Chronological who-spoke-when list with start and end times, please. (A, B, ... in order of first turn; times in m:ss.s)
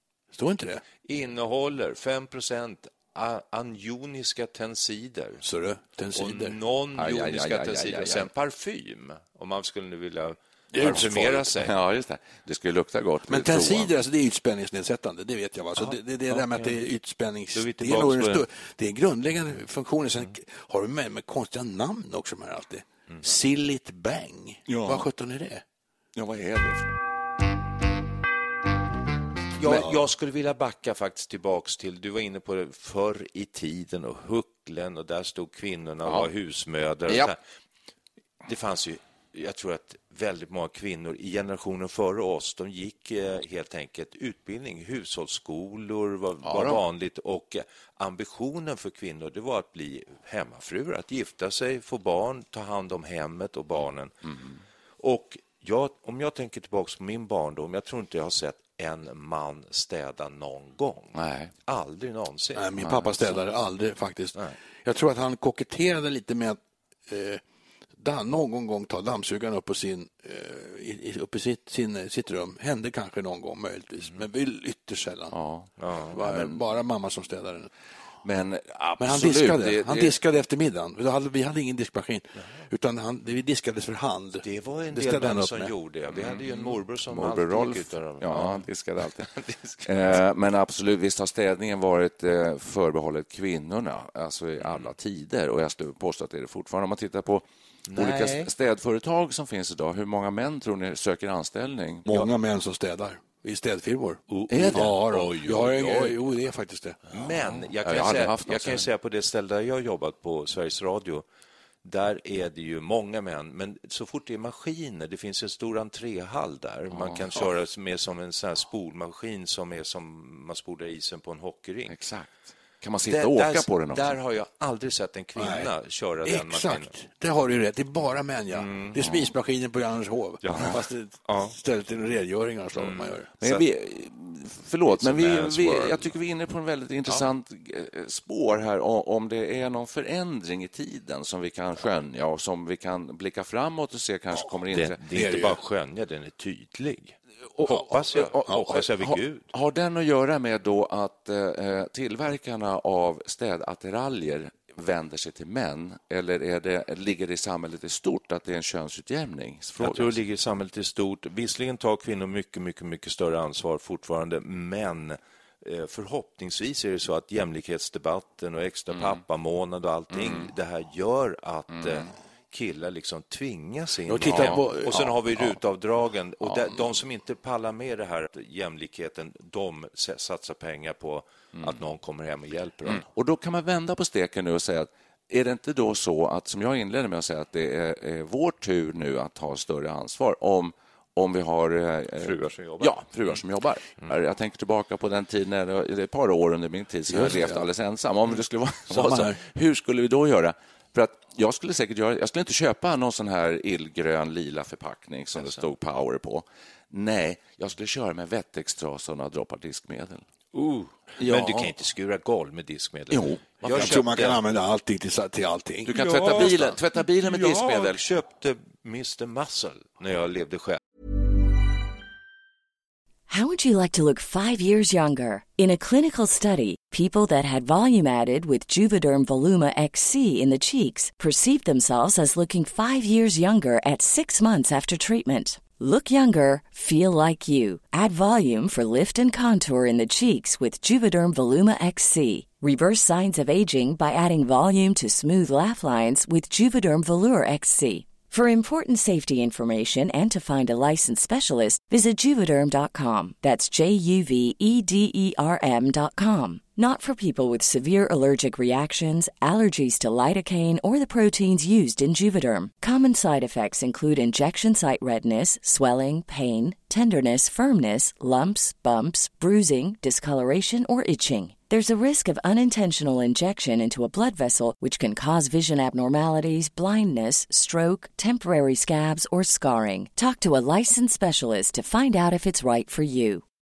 0:00.3-0:00.8 A
0:01.0-0:05.4 B
0:05.4-0:06.6 A
0:06.2-0:11.7 B
0:07.0-0:08.3 C
0:10.7-0:11.5 A
0:10.8-0:13.9 C
0:13.3-0:25.6 A
0:15.8-0:16.8 B
0:17.6-0:18.4 B
0:24.7-0:25.1 C
0:26.2-0:27.0 C
0:29.6-0:37.4 B
0:38.4-0:54.1 B
0:46.4-0:46.8 C
0:54.3-0:54.6 C
0:55.0-1:01.2 B
1:01.2-1:01.5 C
1:01.7-1:02.7 B
1:02.6-1:07.4 A
1:02.8-1:03.3 C
1:08.0-1:15.3 A
1:15.3-1:16.6 C
1:15.8-1:16.2 B
1:16.1-1:17.7 A
1:18.2-1:20.2 C
1:19.0-1:25.7 A
1:24.4-1:28.7 B
1:26.1-1:29.3 C
1:29.2-1:30.2 B
1:29.8-1:42.3 C
1:34.6-1:34.9 B
1:37.9-1:38.5 B
1:42.1-1:47.0 A
1:44.3-1:46.2 B
1:44.5-1:45.0 C
1:47.1-1:51.3 B
1:47.8-1:48.9 C
1:51.8-2:01.9 B
1:56.9-1:57.3 C
2:01.9-2:04.1 C
2:03.1-2:06.9 B
2:05.4-2:05.7 A
2:06.2-2:13.3 A
2:08.5-2:09.0 B
2:09.0-2:09.3 C
2:10.4-2:11.6 B
2:12.8-2:13.6 B
2:13.4-2:25.0 C
2:14.9-2:16.2 B
2:24.7-2:29.5 B
2:25.1-2:25.6 A
2:27.6-2:28.8 A
2:28.2-2:40.2 C
2:39.8-3:03.0 B
2:48.9-2:49.2 C
2:50.1-2:50.5 C
2:51.7-2:52.1 C
2:54.1-2:55.2 A
2:54.3-2:54.7 C
2:56.5-2:56.8 C
3:02.9-3:30.2 C
3:12.2-3:13.4 B
3:17.1-3:17.7 A
3:18.9-3:19.4 A
3:25.4-3:25.6 B
3:30.6-3:34.4 B
3:31.2-3:31.7 C
3:33.1-3:34.3 C
3:33.6-3:36.8 A
3:35.9-3:38.0 C
3:35.9-3:40.8 B
3:43.3-4:43.4 D